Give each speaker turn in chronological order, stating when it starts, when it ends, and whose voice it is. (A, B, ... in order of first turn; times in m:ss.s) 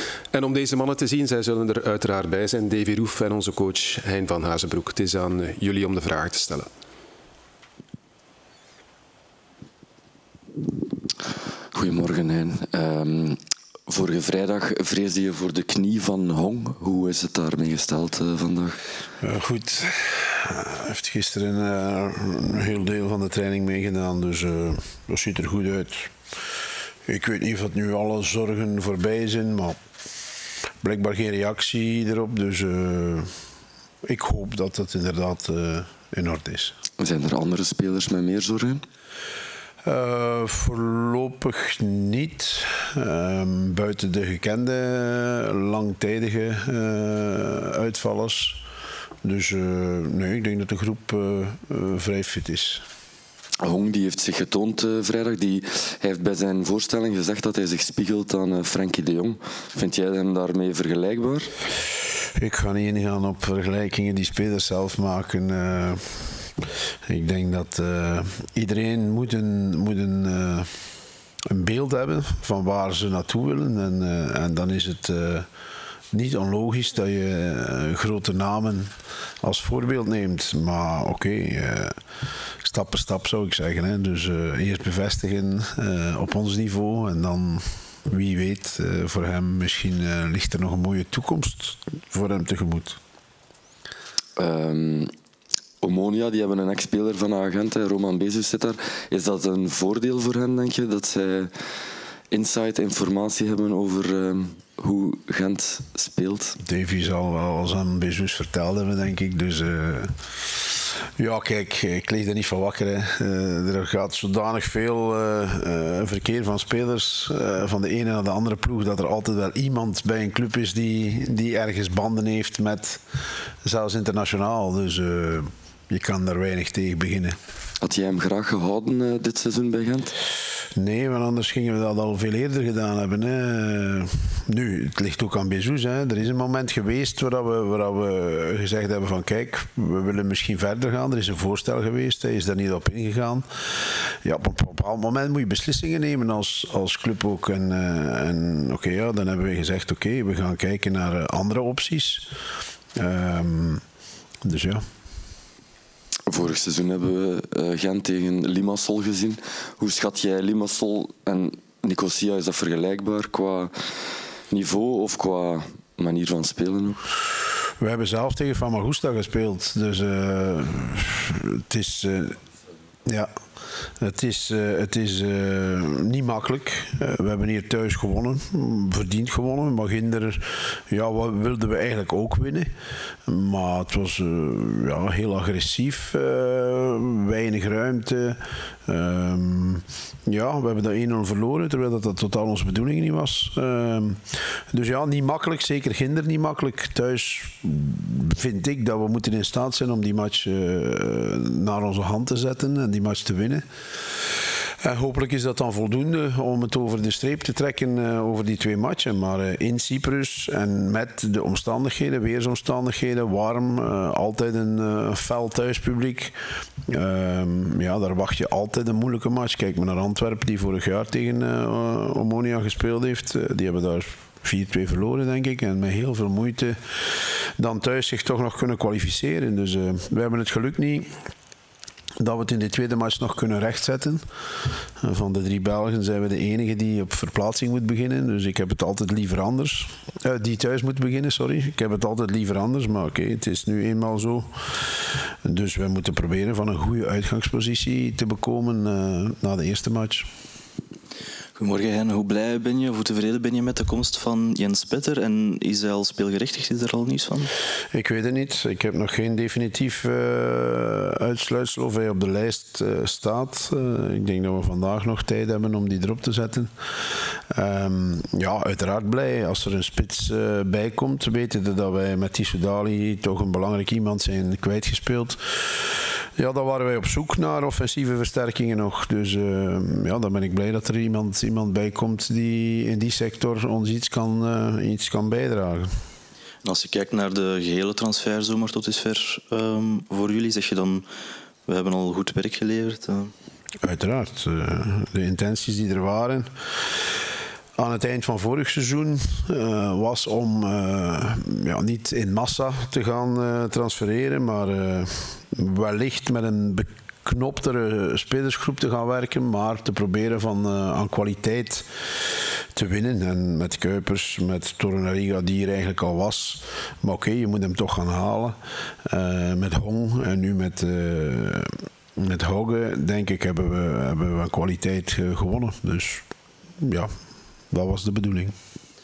0:00.3-0:06.7 A
0:11.7-0:18.8 B
0:19.2-0:26.1 C
0:27.1-0:29.8 C
0:30.8-0:33.3 C
0:34.0-0:36.7 C
0:37.0-0:38.8 B
0:39.8-0:48.6 C
0:49.2-0:52.8 C
0:53.6-1:01.5 B
1:02.4-1:06.5 C
1:07.1-1:10.7 C
1:11.5-1:15.5 C
1:16.1-1:18.9 C
1:19.4-1:21.9 C
1:22.6-1:33.0 C
1:34.4-1:35.1 B
1:35.8-1:41.5 B
1:42.3-1:46.6 B
1:46.6-1:50.1 C
1:51.2-2:03.0 C
2:03.6-2:07.4 C
2:07.8-2:10.1 B
2:10.8-2:23.4 C
2:24.2-2:32.3 C
2:33.0-2:33.8 C
2:34.4-2:34.8 C
2:36.3-2:43.7 B
2:44.5-2:47.0 B
2:47.8-2:52.4 C
2:54.0-3:02.7 C
3:03.3-3:23.6 C
3:24.8-3:36.3 C
3:36.9-3:46.8 C
3:47.6-3:51.1 C
3:52.2-3:54.2 C
3:55.0-4:04.5 C
4:05.4-4:10.3 C
4:11.6-4:17.5 D
4:17.9-4:26.7 C
4:27.5-4:35.4 C
4:36.4-4:45.9 C
4:46.6-4:51.0 D
4:51.7-4:53.3 D
4:53.8-4:56.5 C
4:57.8-5:11.9 C
5:12.7-5:26.2 C
5:26.8-5:27.1 C
5:27.7-5:28.5 C